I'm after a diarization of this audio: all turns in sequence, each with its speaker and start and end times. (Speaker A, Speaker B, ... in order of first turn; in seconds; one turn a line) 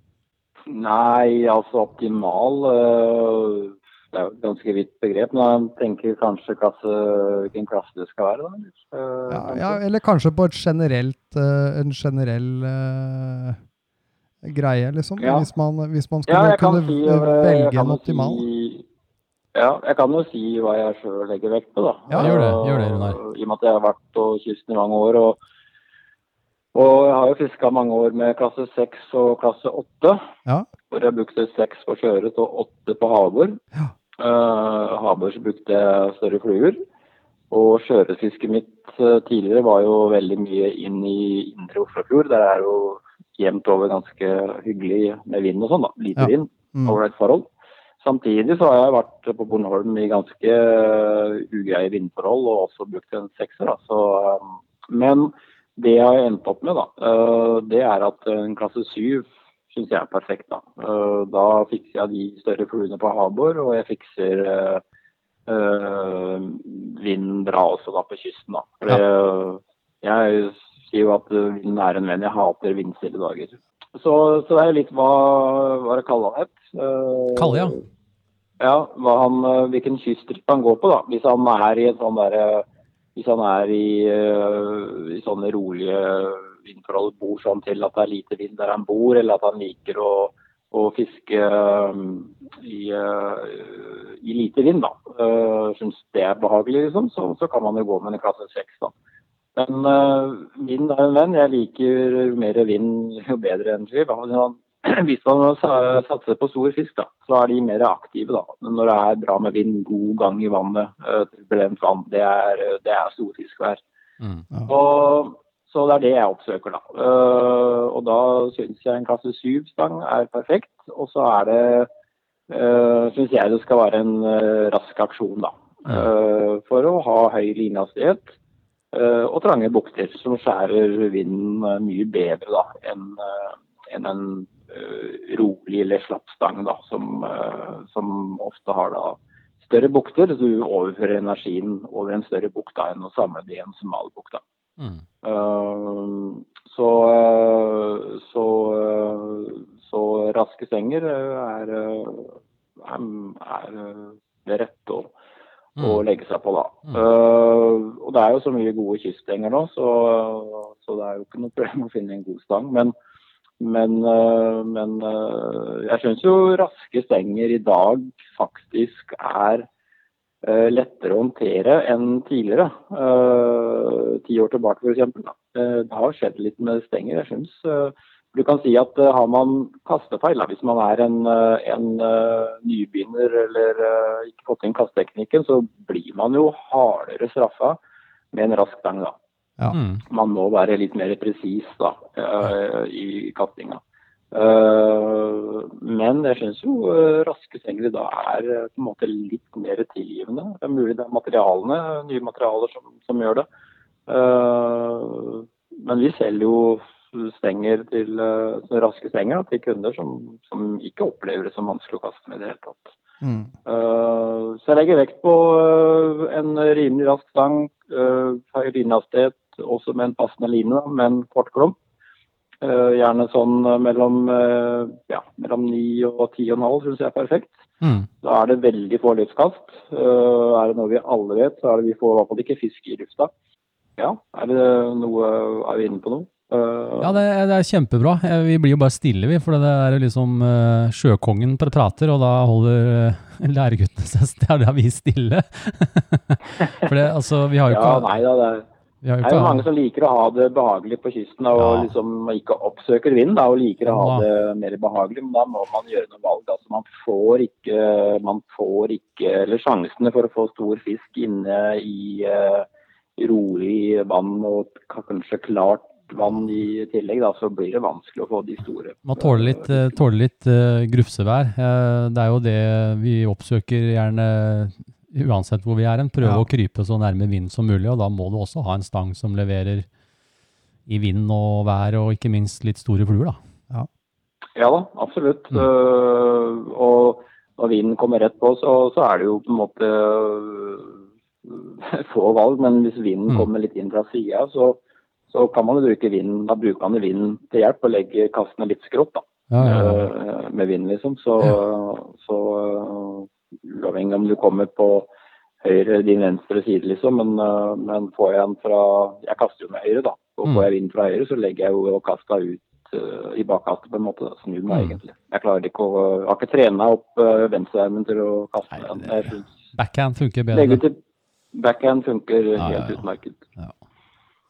Speaker A: 0.7-9.8
Speaker B: 9.3-13.6
Speaker B: 14.4-18.4
Speaker A: 15.2-15.5
Speaker A: 16.3-18.9
Speaker A: 19.5-25.4
Speaker C: 22.2-23.2
Speaker A: 26.7-30.2
Speaker A: 30.9-33.6
Speaker A: 34.2-36.8
Speaker A: 37.5-47.5
Speaker B: 46.2-47.0
Speaker A: 48.0-64.8
Speaker A: 65.5-77.8
Speaker C: 77.3-77.8
Speaker A: 78.6-98.9
Speaker A: 99.5-113.8
Speaker C: 114.2-114.5
Speaker A: 114.7-121.9
Speaker A: 122.5-128.3
Speaker A: 128.9-144.4
Speaker A: 145.2-155.1
Speaker A: 155.8-162.9
Speaker A: 163.6-169.7
Speaker A: 170.4-187.8
Speaker A: 188.3-189.2
Speaker C: 189.7-190.0
Speaker A: 190.1-193.8
Speaker A: 194.3-203.5
Speaker A: 204.1-212.9
Speaker B: 213.2-213.5
Speaker A: 213.7-221.8
Speaker A: 222.6-227.5
Speaker C: 227.8-228.1
Speaker A: 228.2-233.3
Speaker A: 234.0-237.2
Speaker C: 237.0-248.2
Speaker A: 247.7-248.7
Speaker C: 249.0-249.7
Speaker A: 249.2-269.9
Speaker C: 251.6-251.9
Speaker C: 253.8-254.3
Speaker C: 269.1-279.9
Speaker C: 280.9-283.4
Speaker A: 284.6-305.1
Speaker C: 299.5-300.1
Speaker A: 305.6-319.5
Speaker C: 314.7-315.0
Speaker C: 318.7-320.8
Speaker A: 320.5-321.0
Speaker A: 321.5-323.4
Speaker C: 322.6-323.0